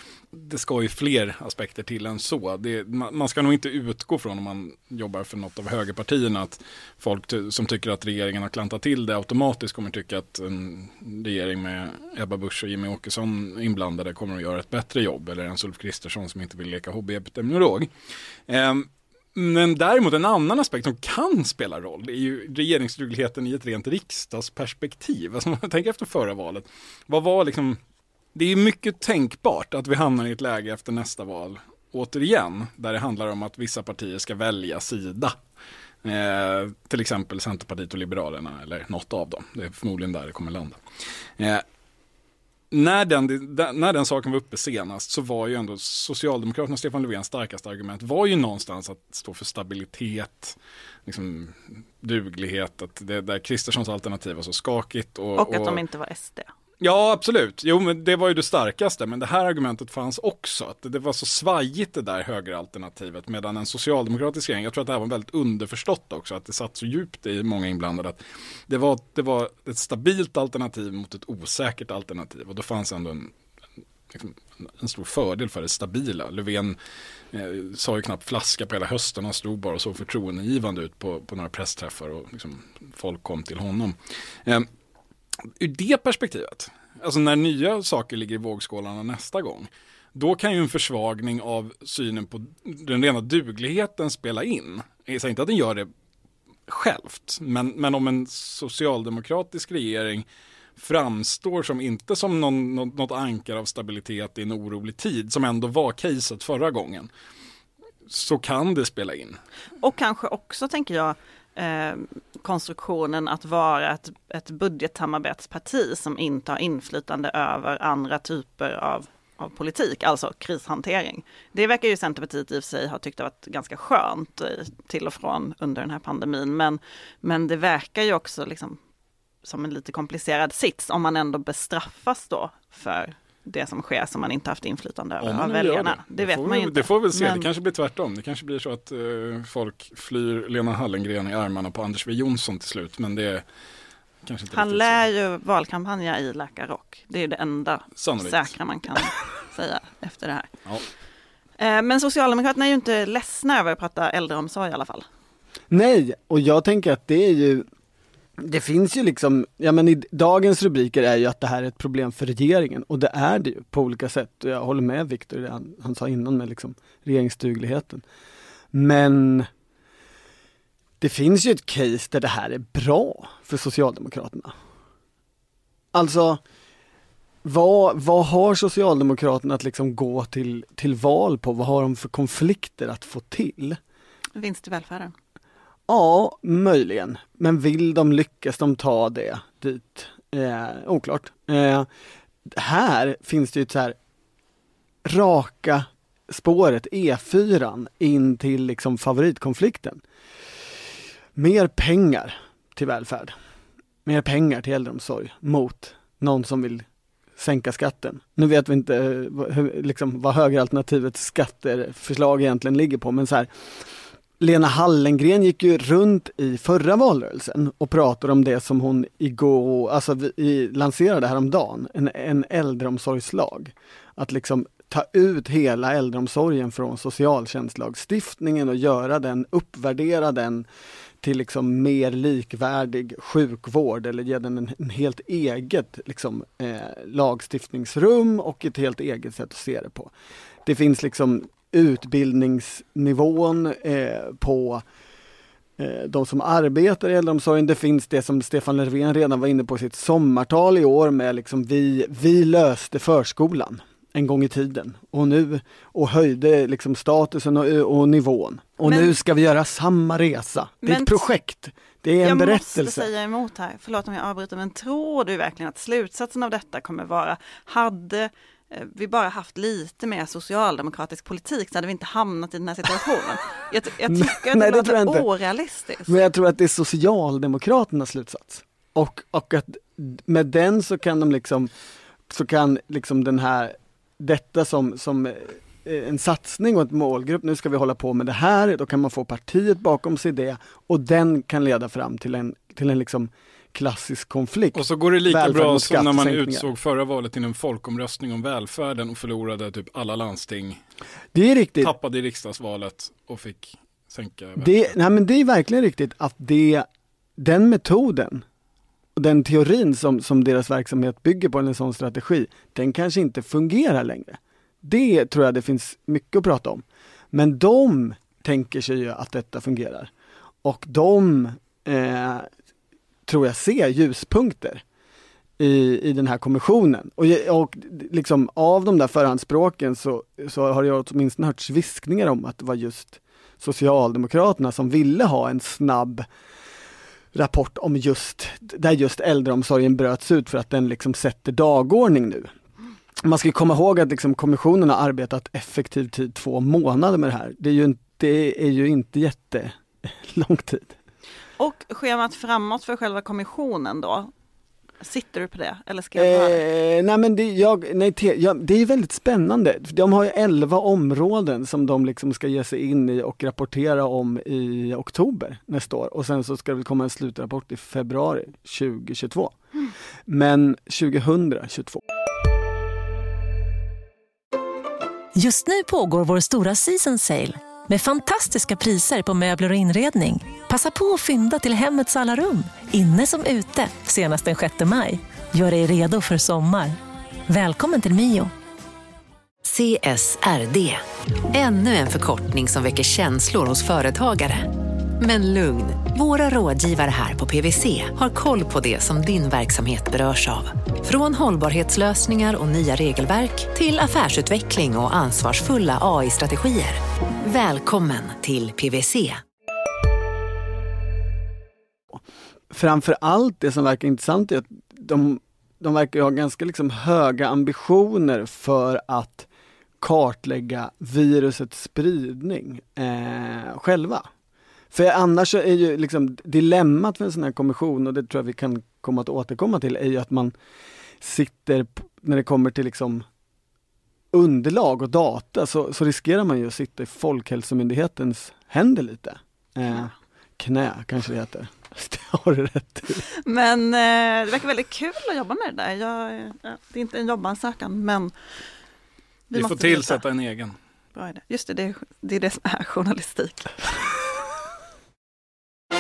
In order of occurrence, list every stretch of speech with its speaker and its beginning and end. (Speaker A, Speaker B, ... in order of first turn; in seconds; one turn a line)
Speaker A: 0.3-17.9
Speaker A: 18.5-27.8
Speaker A: 28.4-35.4
Speaker A: 36.0-40.8
Speaker A: 41.4-41.6
Speaker A: 42.7-55.8
Speaker B: 55.4-56.5
Speaker A: 56.8-73.3
Speaker A: 74.1-76.8
Speaker A: 77.3-84.7
Speaker A: 85.5-95.9
Speaker A: 96.7-100.2
Speaker A: 100.8-107.1
Speaker A: 108.1-109.4
Speaker B: 109.8-128.8
Speaker B: 129.4-137.5
Speaker A: 135.2-143.4
Speaker A: 144.2-145.1
Speaker B: 144.5-150.5
Speaker A: 148.0-148.6
Speaker B: 151.6-155.1
Speaker C: 155.7-157.7
Speaker C: 158.4-168.0
Speaker C: 168.7-169.5
Speaker C: 171.0-174.5
Speaker C: 175.9-176.4
Speaker C: 177.4-183.8
Speaker B: 184.4-185.1
Speaker C: 185.9-191.9
Speaker C: 192.5-194.0
Speaker C: 195.0-200.0
Speaker C: 201.4-203.3
Speaker C: 204.1-206.9
Speaker C: 207.4-213.5
Speaker C: 214.4-230.7
Speaker C: 231.2-240.1
Speaker C: 240.7-244.8
Speaker C: 245.8-263.1
Speaker B: 258.8-259.1
Speaker B: 260.8-261.3
Speaker B: 262.2-276.1
Speaker C: 274.1-275.3
Speaker C: 276.1-281.7
Speaker C: 282.3-296.7
Speaker A: 294.8-300.8
Speaker C: 301.3-301.9
Speaker A: 301.8-304.8
Speaker C: 304.6-306.9
Speaker C: 307.4-308.4
Speaker C: 309.2-320.1
Speaker C: 320.6-322.5
Speaker C: 323.3-324.8
Speaker C: 325.6-336.3
Speaker C: 337.3-342.5
Speaker C: 343.2-351.0
Speaker B: 351.6-354.3
Speaker B: 355.0-356.6
Speaker C: 356.1-369.6
Speaker C: 370.3-372.0
Speaker D: 375.4-387.0
Speaker D: 387.5-388.5
Speaker E: 389.6-409.4
Speaker C: 412.1-419.5
Speaker C: 420.0-424.3
Speaker C: 424.9-430.5
Speaker C: 431.2-433.2
Speaker C: 434.3-443.3
Speaker B: 443.4-448.3
Speaker B: 449.5-450.2
Speaker A: 449.5-450.8
Speaker B: 451.1-453.9